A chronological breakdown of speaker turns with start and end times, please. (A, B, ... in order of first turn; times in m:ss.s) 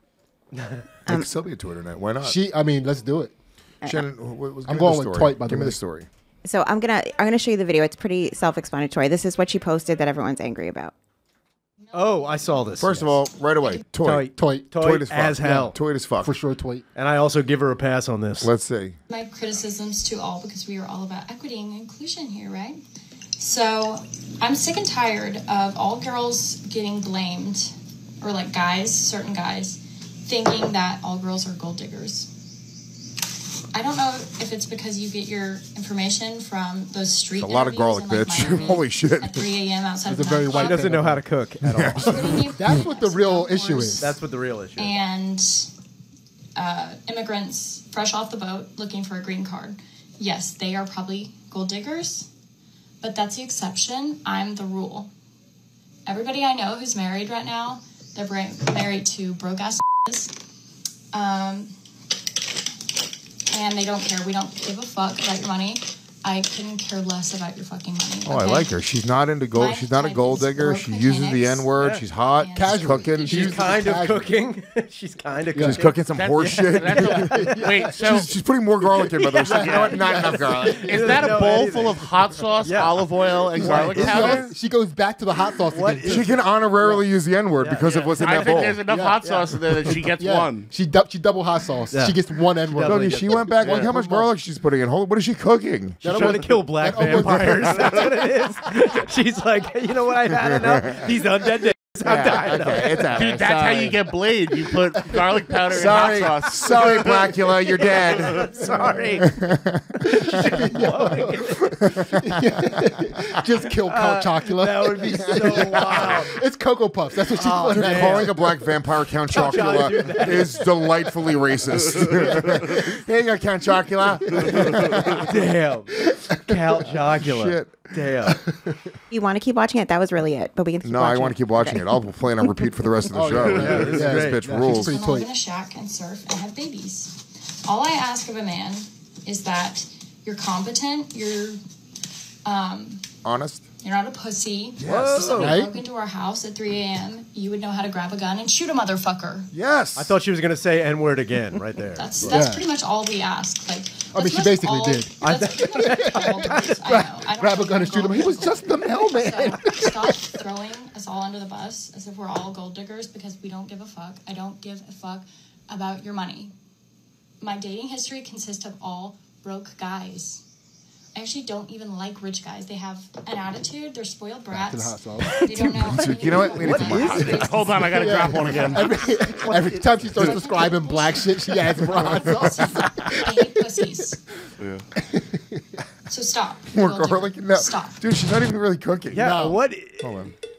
0:00.5-0:00.8 A
0:01.1-0:02.4 B
0:02.2-0:03.3 C
0:03.8-0:06.1 B
0:04.6-0:05.8 C
0:06.4-0:10.9 D
0:11.8-0:12.8 E
0:11.9-0:13.2 A
0:12.8-0:14.3 B
0:13.6-0:13.8 E
0:14.0-0:15.8 A
0:14.3-0:14.7 C
0:14.8-0:16.3 B
0:15.4-0:16.9 C
0:16.9-0:18.5 A
0:18.4-0:19.0 B
0:19.1-0:22.8 E
0:23.4-0:32.3 E
0:33.7-0:40.8 E
0:37.4-0:39.5 B
0:40.0-0:41.2 C
0:40.6-0:42.2 A
0:41.7-0:42.1 B
0:42.0-0:44.1 C
0:42.0-0:44.2 E
0:44.0-0:45.0 A
0:44.8-0:45.7 E
0:46.6-0:52.3 E
0:53.0-0:55.1 E
0:56.0-1:00.3 E
1:01.1-1:01.7 E
1:03.5-1:08.8 E
1:08.2-1:13.5 B
1:09.5-1:11.7 E
1:11.8-1:12.2 A
1:12.3-1:12.8 E
1:12.5-1:14.3 C
1:13.1-1:17.7 A
1:15.5-1:15.8 C
1:15.6-1:17.5 B
1:16.1-1:18.3 F
1:17.0-1:18.1 C
1:18.0-1:20.9 B
1:19.0-1:24.5 A
1:19.4-1:21.5 C
1:19.5-1:20.0 F
1:20.9-1:24.5 F
1:23.6-1:26.4 C
1:25.4-1:27.0 A
1:26.0-1:28.8 B
1:27.6-1:27.9 A
1:27.8-1:30.7 F
1:28.9-1:29.2 C
1:29.2-1:29.5 A
1:29.8-1:34.3 C
1:31.9-1:33.9 A
1:32.8-1:36.2 B
1:33.6-1:33.9 F
1:36.0-1:43.2 A
1:36.0-1:38.1 C
1:40.6-1:41.1 B
1:42.0-1:44.0 B
1:43.1-1:47.3 F
1:45.7-1:48.5 B
1:47.3-1:49.4 A
1:48.8-1:49.0 C
1:49.2-1:50.0 B
1:50.0-1:51.5 C
1:50.0-1:52.7 A
1:51.8-1:52.2 B
1:52.2-1:58.6 C
1:53.7-1:56.4 A
1:55.3-1:55.8 B
1:57.2-1:58.3 A
1:57.7-2:05.3 B
1:59.3-2:00.6 A
2:02.2-2:03.0 C
2:04.3-2:05.3 C
2:05.2-2:08.4 A
2:06.1-2:06.7 C
2:07.2-2:07.9 B
2:08.2-2:08.9 C
2:09.1-2:13.0 D
2:10.8-2:14.9 B
2:13.1-2:15.3 C
2:13.5-2:14.8 A
2:14.8-2:21.6 E
2:22.4-2:23.0 E
2:23.2-2:23.6 B
2:23.8-2:29.5 E
2:24.8-2:25.3 B
2:24.8-2:25.7 A
2:25.4-2:25.8 C
2:29.5-2:30.2 B
2:30.0-2:32.4 A
2:31.9-2:46.5 E
2:32.2-2:32.7 C
2:34.1-2:40.4 C
2:35.2-2:36.6 A
2:47.4-2:50.4 E
2:51.1-2:59.4 E
2:54.5-2:55.4 C
2:55.2-2:58.0 A
2:55.8-2:57.4 B
2:57.3-2:59.0 F
2:57.9-3:03.8 C
2:58.7-3:00.3 A
3:00.3-3:04.2 E
3:02.6-3:03.1 B
3:04.6-3:04.8 F
3:05.0-3:05.8 C
3:06.1-3:08.0 E
3:06.7-3:09.3 B
3:09.1-3:10.1 A
3:09.2-3:09.6 C
3:10.0-3:10.3 B